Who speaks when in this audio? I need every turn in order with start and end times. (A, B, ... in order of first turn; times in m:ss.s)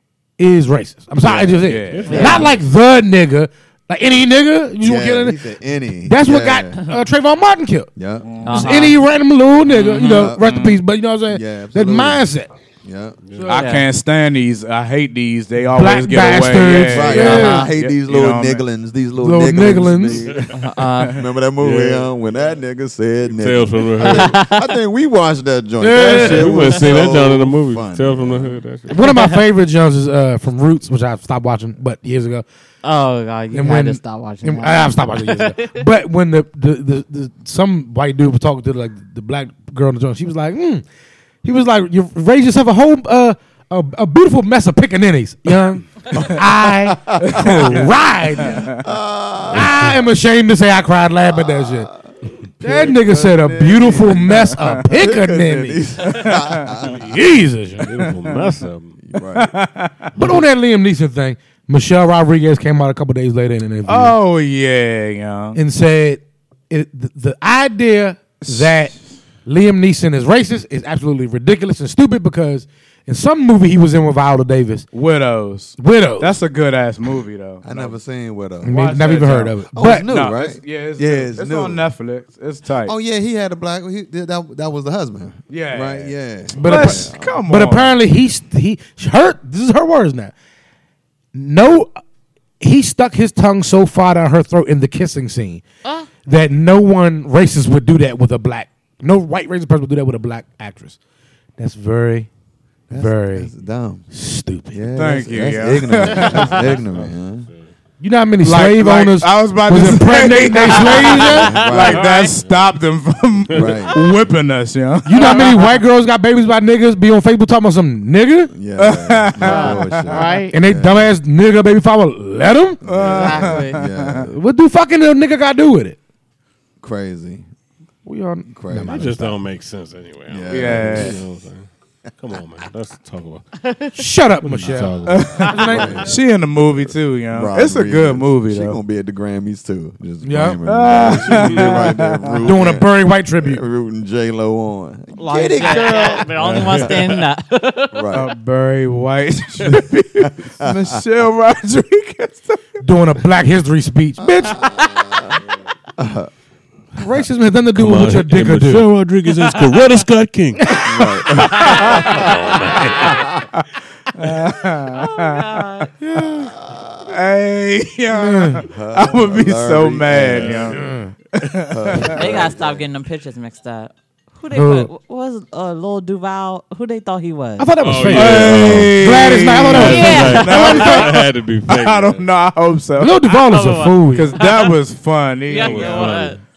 0:00.4-0:05.4 A
0:01.2-0:01.7 B
0:01.6-0:02.4 C
0:01.9-0:02.5 D
0:02.1-0:02.4 E
0:04.8-0:06.8 B
0:06.0-0:07.9 A
0:08.0-0:08.3 B
0:08.2-0:08.8 C
0:08.4-0:09.0 E
0:08.5-0:12.5 A
0:09.8-0:10.8 C
0:10.0-0:10.5 B
0:11.3-0:12.3 B
0:12.8-0:13.2 B
0:13.2-0:13.5 D
0:13.4-0:13.7 A
0:13.5-0:18.6 C
0:13.5-0:13.9 E
0:15.7-0:17.7 A
0:16.8-0:28.6 B
0:17.2-0:17.7 E
0:19.2-0:20.3 A
0:20.6-0:21.2 E
0:21.6-0:22.1 D
0:23.3-0:24.4 D
0:24.0-0:24.7 E
0:25.8-0:26.7 A
0:26.0-0:29.1 D
0:28.9-0:32.4 A
0:29.1-0:29.3 E
0:32.8-0:35.8 E
0:33.5-0:40.8 A
0:41.4-0:48.7 A
0:46.1-0:47.8 B
0:47.2-0:47.9 C
0:48.4-0:50.0 B
0:48.5-0:48.8 C
0:49.5-0:51.9 A
0:51.3-0:52.0 B
0:52.6-0:57.2 B
0:52.6-0:55.8 A
0:56.0-0:56.9 C
0:56.9-0:57.9 A
0:57.8-0:59.0 D
0:58.0-0:58.5 C
0:59.1-0:59.5 B
0:59.3-1:00.1 C
1:00.2-1:04.2 A
1:03.9-1:05.6 C
1:05.6-1:08.9 A
1:08.4-1:09.0 C
1:09.4-1:14.9 A
1:14.9-1:18.0 C
1:15.8-1:16.4 A
1:17.6-1:18.8 B
1:18.6-1:20.1 A
1:18.6-1:22.9 C
1:19.7-1:21.9 B
1:22.8-1:27.4 B
1:25.5-1:28.0 C
1:26.5-1:30.3 A
1:31.3-1:32.0 A
1:32.6-1:35.6 A
1:36.3-1:41.0 A
1:41.6-1:42.3 A
1:42.9-1:44.1 B
1:42.9-1:43.5 A
1:44.1-1:44.9 A
1:44.7-1:47.5 B
1:45.0-1:46.6 C
1:46.1-1:47.7 D
1:48.0-1:51.5 A
1:48.4-1:55.6 C
1:50.6-1:52.2 E
1:51.2-1:52.2 B
1:51.6-1:52.7 D
1:53.5-1:53.9 D
1:53.5-1:54.0 B
1:55.0-1:58.5 A
1:55.2-1:55.5 E
1:58.5-2:01.1 B
1:58.8-2:00.4 C
1:59.4-2:00.5 E
2:00.5-2:02.8 A
2:02.8-2:04.3 B
2:02.9-2:04.2 C
2:03.1-2:03.8 E
2:04.2-2:06.0 A
2:06.8-2:07.4 B
2:08.0-2:09.4 A
2:08.5-2:09.1 B
2:08.9-2:11.7 D
2:10.3-2:11.2 B
2:10.5-2:11.2 C
2:12.2-2:13.5 D
2:13.6-2:14.0 E
2:13.9-2:16.1 A
2:14.4-2:16.0 D
2:15.0-2:18.8 C
2:15.6-2:16.2 B
2:17.3-2:27.1 B
2:20.2-2:20.6 A
2:20.6-2:22.5 C
2:21.0-2:21.9 D
2:22.4-2:23.6 A
2:25.2-2:28.1 E
2:26.3-2:27.2 D
2:27.9-2:28.3 B
2:28.1-2:32.8 C
2:30.2-2:30.8 B
2:32.8-2:34.6 A
2:34.2-2:35.4 B
2:36.0-2:36.3 B
2:37.0-2:38.9 A
2:37.8-2:40.8 D
2:40.6-2:41.2 A
2:40.8-2:42.5 B
2:41.4-2:42.2 C
2:41.4-2:43.3 E
2:42.2-2:43.1 D
2:43.6-2:46.5 C
2:44.9-2:45.9 E
2:46.2-2:47.1 B
2:47.1-2:50.8 C
2:48.1-2:48.6 A
2:48.7-2:50.8 B
2:50.1-2:50.8 D
2:50.7-2:51.1 A
2:51.3-2:52.3 C
2:51.7-2:52.8 B
2:52.0-2:57.7 E
2:54.5-2:54.9 A
2:57.6-3:01.2 A
2:57.8-3:02.3 D
2:58.0-3:03.2 C
2:59.7-3:01.0 E
3:03.0-3:04.4 A
3:03.2-3:04.7 E
3:04.1-3:06.3 C
3:05.5-3:06.4 E
3:05.5-3:06.4 D